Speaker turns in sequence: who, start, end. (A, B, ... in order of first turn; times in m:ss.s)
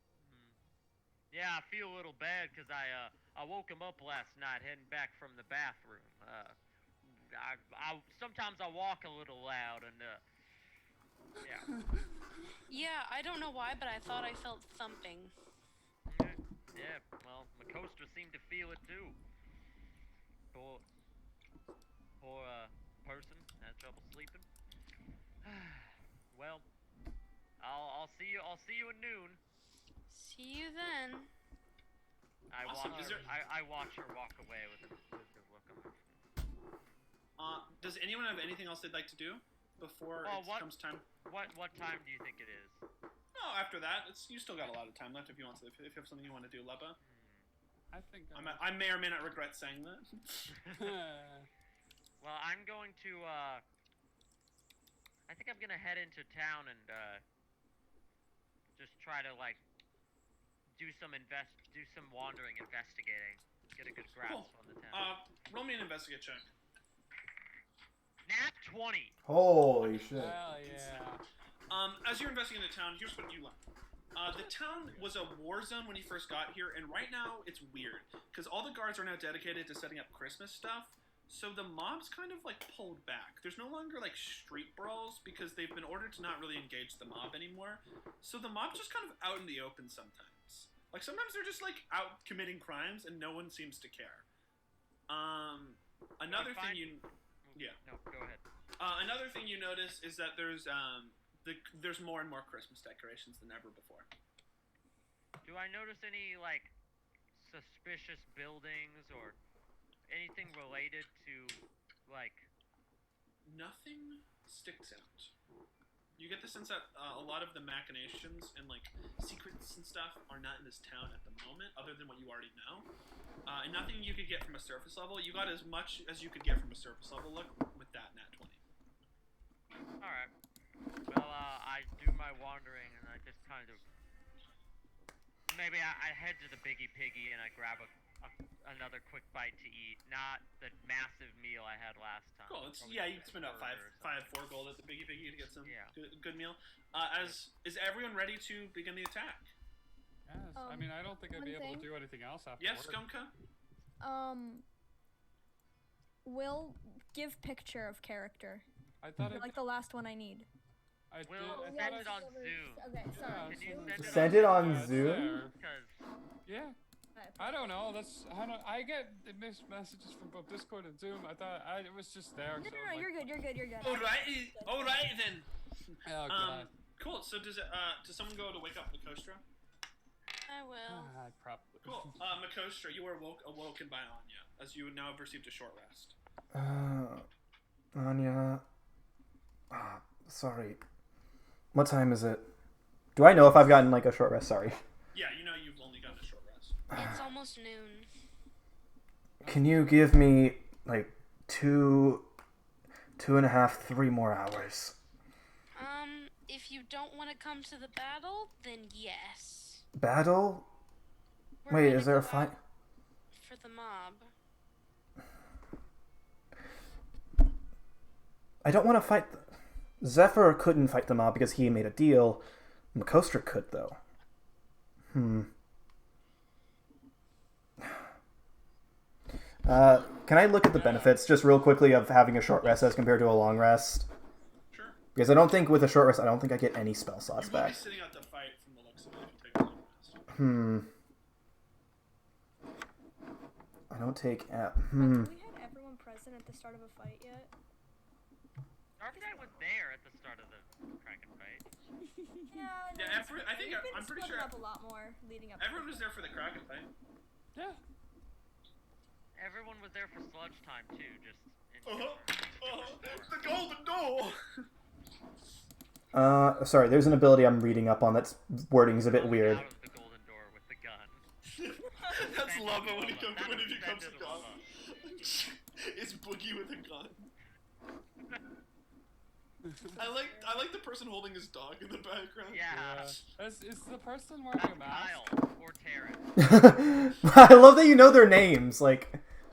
0:00.2-0:00.6 A
0:01.3-0:10.2 A
0:11.8-0:12.1 B
0:12.7-0:15.3 C
0:16.1-0:19.2 A
0:20.5-0:20.8 A
0:22.2-0:24.5 A
0:25.4-0:26.7 A
0:27.6-0:29.4 A
0:30.1-0:31.3 C
0:32.5-0:36.2 A
0:32.6-0:33.3 D
0:37.4-0:41.1 D
0:40.2-0:42.8 A
0:43.4-0:47.0 D
0:47.0-0:47.5 A
0:47.9-0:48.7 B
0:48.3-0:50.6 D
0:50.7-0:51.5 B
0:52.2-0:53.6 A
0:55.3-0:57.2 A
0:58.8-0:59.6 A
1:00.7-1:05.1 A
1:04.2-1:06.5 D
1:08.3-1:09.2 A
1:09.2-1:10.4 E
1:10.1-1:11.2 B
1:10.6-1:11.0 D
1:11.7-1:13.6 D
1:14.2-1:34.3 D
1:14.6-1:15.0 A
1:35.1-1:37.0 D
1:36.3-1:38.4 A
1:38.8-1:44.1 D
1:45.4-1:46.7 A
1:47.3-1:49.4 A
1:50.1-1:52.5 A
1:53.4-1:55.3 D
1:56.2-2:02.9 D
2:03.4-2:08.6 D
2:10.0-2:10.3 A
2:11.1-2:13.9 A
2:15.5-2:24.3 A
2:22.5-2:29.5 D
2:25.6-2:26.0 A
2:27.1-2:27.4 A
2:30.3-2:33.1 B
2:30.6-2:31.9 F
2:32.6-2:33.3 D
2:34.0-2:34.6 F
2:36.2-2:38.7 F
2:39.0-2:39.6 B
2:39.3-2:40.5 F
2:41.1-2:42.2 B
2:41.2-2:46.0 A
2:41.5-2:44.6 F
2:43.1-2:45.5 B
2:44.0-2:45.4 E
2:46.4-2:46.8 B
2:47.2-2:47.8 F
2:47.4-2:53.3 B
2:52.6-2:55.2 F
2:53.8-2:59.4 D
2:56.0-2:56.7 B
3:00.4-3:01.1 C
3:00.8-3:02.2 B
3:01.8-3:06.2 D
3:06.5-3:07.2 E
3:08.0-3:08.6 E
3:09.7-3:10.8 E
3:11.7-3:12.5 E
3:13.2-3:14.8 E
3:15.1-3:16.8 D
3:16.9-3:18.1 C
3:19.4-3:20.0 B
3:19.4-3:22.3 E
3:23.2-3:25.0 E
3:25.8-3:29.8 C
3:30.0-3:30.7 E
3:31.6-3:32.5 C
3:31.7-3:32.6 E
3:33.3-3:34.3 C
3:38.6-3:39.5 E
3:40.0-3:44.0 E
3:45.1-3:45.5 E
3:49.6-3:54.1 E
3:54.7-3:55.0 D
3:55.2-3:57.8 E
3:57.4-4:00.2 D
4:00.3-4:00.9 E
4:03.9-4:05.3 E
4:05.0-4:07.5 F
4:09.0-4:11.7 A
4:12.2-4:12.7 B
4:12.5-4:16.4 F
4:13.0-4:14.5 D
4:15.6-4:16.9 D
4:17.5-4:17.8 B
4:19.4-4:23.4 A
4:21.8-4:24.4 D
4:26.1-4:29.7 E
4:29.0-4:31.2 A
4:31.5-4:37.3 D
4:32.2-4:34.6 A
4:39.6-4:40.0 B
4:39.9-4:40.6 F
4:40.0-4:43.0 D
4:42.5-4:43.2 A
4:42.7-4:45.2 B
4:44.5-4:46.3 A
4:46.4-4:49.2 E